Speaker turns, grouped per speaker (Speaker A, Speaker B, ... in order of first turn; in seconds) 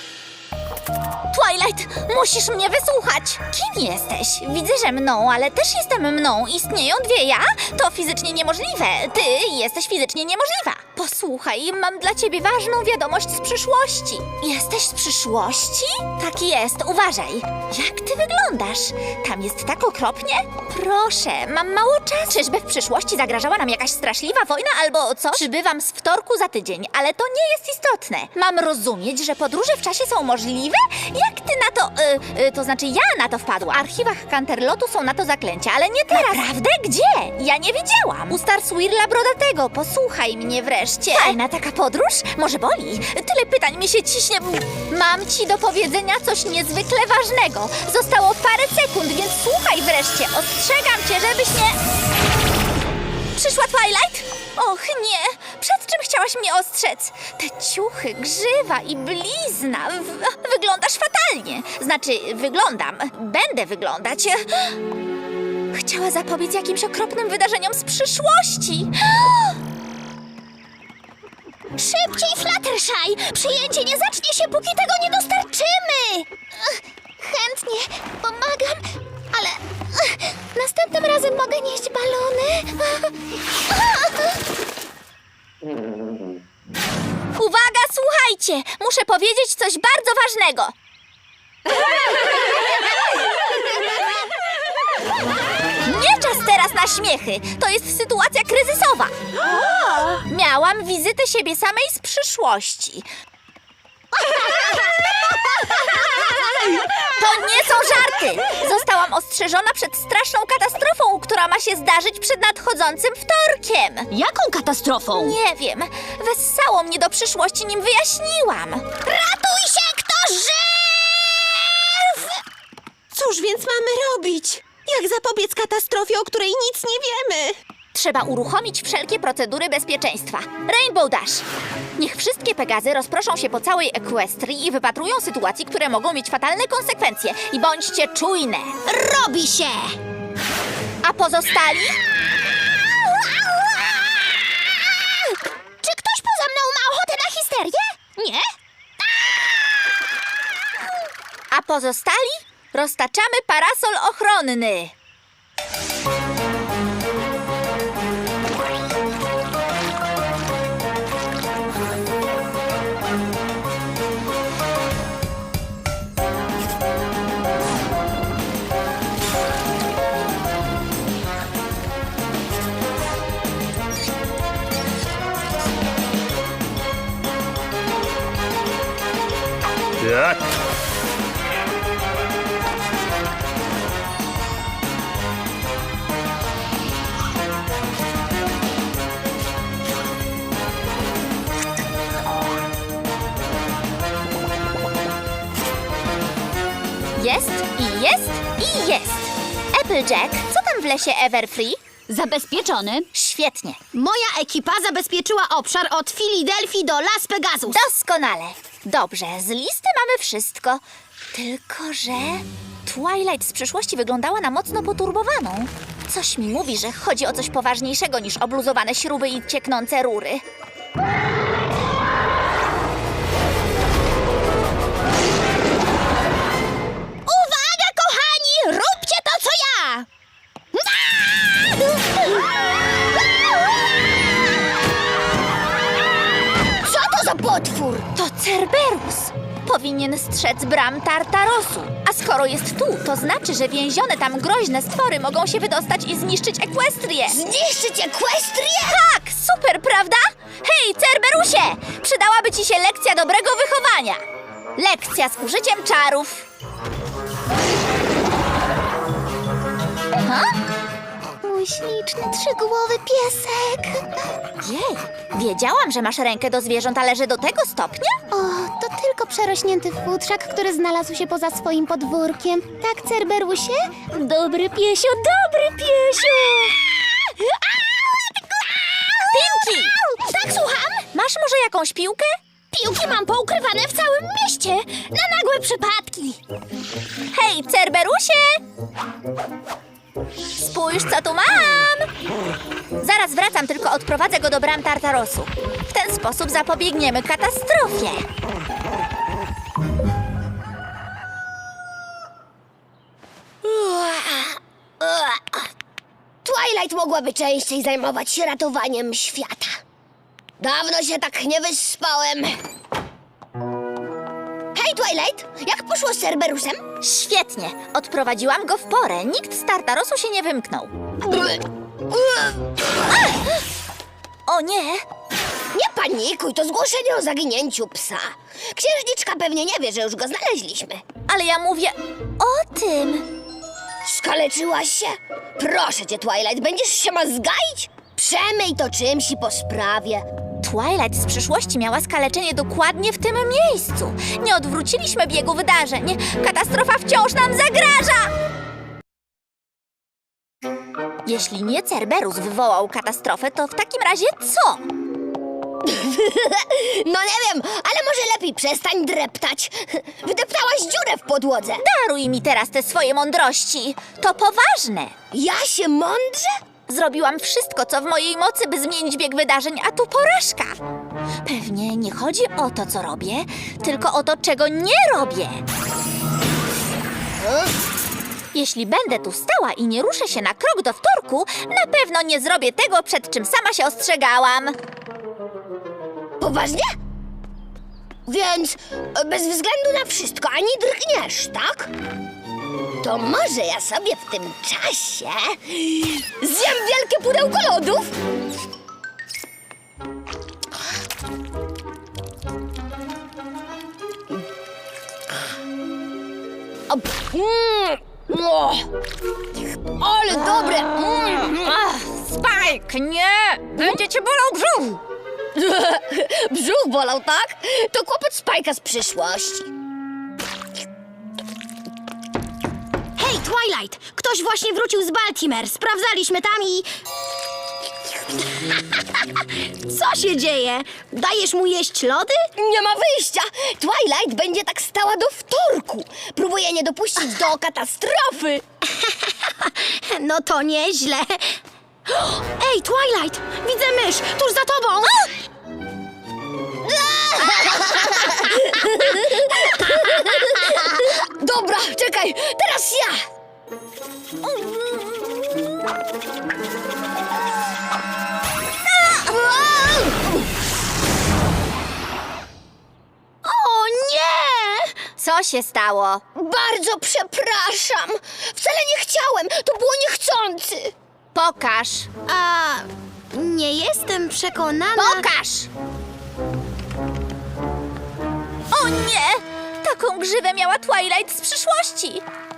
Speaker A: 1.3-51.8, 53.4-64.8, 65.7-69.5, 87.3-90.7, 95.8-99.2, 100.2-103.1, 107.0-114.1, 115.2-118.9, 127.9-131.4, 132.0-138.8, 141.0-142.0, 151.5-154.9, 197.2-201.8, 203.1-203.8, 207.6-210.8, 211.3-220.4, 238.2-247.4, 248.9-254.2, 254.8-256.4, 260.2-260.6, 264.6-268.2, 279.3-279.9, 281.1-282.3, 287.3-288.6, 290.4-292.1, 293.0-298.3, 317.0-320.9, 323.2-323.5, 324.5-325.0, 331.3-333.3, 340.6-348.3, 351.2-354.9, 361.8-365.1, 366.9-370.8, 371.4-375.6, 378.5-384.8, 411.5-415.0, 454.4-455.3, 465.2-466.2, 471.3-472.1, 474.9-475.7, 478.7-482.2
Speaker B: 71.8-83.1, 104.2-106.8, 114.1-115.3, 119.0-122.3, 123.2-126.7, 138.9-140.0, 143.0-148.5, 202.1-203.1, 203.9-207.8, 227.3-230.1, 231.6-232.2, 261.4-264.2, 268.3-281.1, 282.7-286.4, 423.2-426.9, 428.7-432.5, 439.0-441.6, 442.1-445.3, 447.9-448.4, 449.8-450.0, 463.4-464.9, 472.3-475.2
Speaker C: 125.6-127.6
Speaker D: 236.8-238.1, 247.3-249.0, 303.6-305.7, 306.4-309.8, 310.6-312.6, 314.8-316.9, 321.2-322.6, 325.7-331.1, 334.0-340.2, 355.8-361.8, 365.3-366.5, 377.4-377.7, 386.4-386.9, 388.3-391.9, 393.0-398.2, 406.9-408.9, 410.0-411.7, 415.6-419.6, 432.6-438.6, 446.9-453.2, 459.0-460.3, 466.4-470.9